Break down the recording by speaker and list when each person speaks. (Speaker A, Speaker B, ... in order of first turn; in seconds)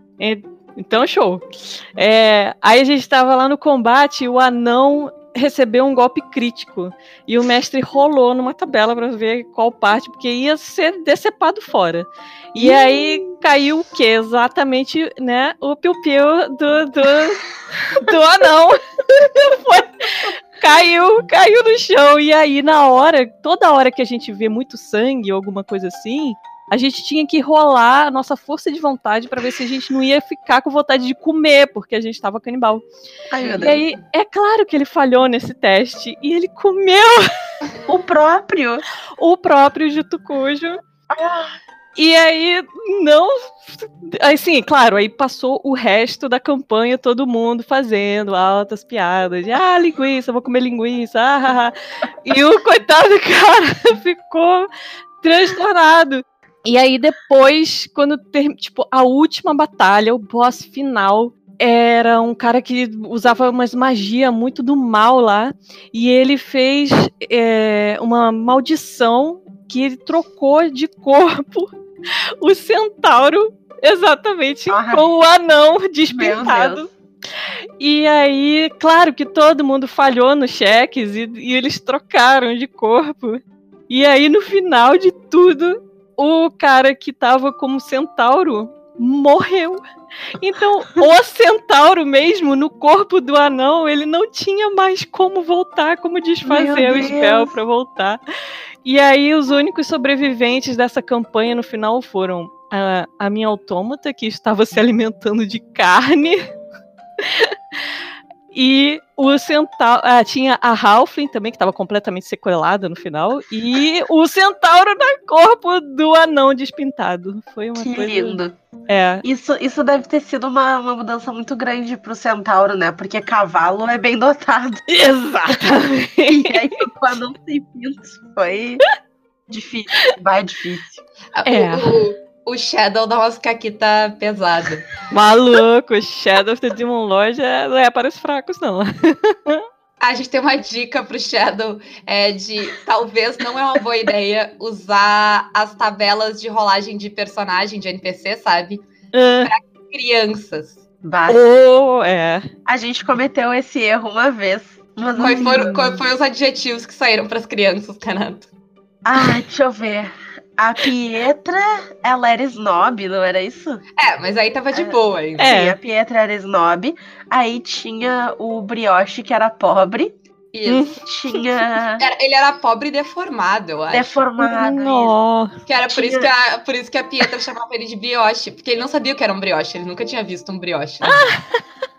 Speaker A: 0.2-32.9, 33.6-37.3, 39.2-40.8, 42.0-51.7, 52.2-54.7, 55.2-71.7, 72.4-76.9, 77.8-89.8, 90.3-98.2, 98.8-106.4, 107.2-107.8, 108.5-119.2, 124.9-126.6, 131.4-132.0, 135.1-139.6, 149.1-149.5, 151.3-152.4, 155.2-155.9, 165.4-165.8, 170.7-171.0, 174.4-175.5, 181.1-181.4
Speaker B: 12.6-13.2, 33.3-33.8, 37.9-38.8, 41.1-41.5, 74.7-75.1, 76.1-76.9, 96.4-97.5, 117.8-118.5, 119.2-124.8, 125.5-128.8, 129.5-131.0, 151.0-151.4, 152.7-155.7, 159.0-163.8, 164.7-170.1, 171.0-172.0, 173.9-175.1, 175.9-176.3
Speaker C: 33.4-34.0, 131.3-134.9, 140.0-148.8, 149.4-150.8, 155.2-158.5, 164.0-165.5, 170.5-170.9, 172.0-174.2, 175.7-181.3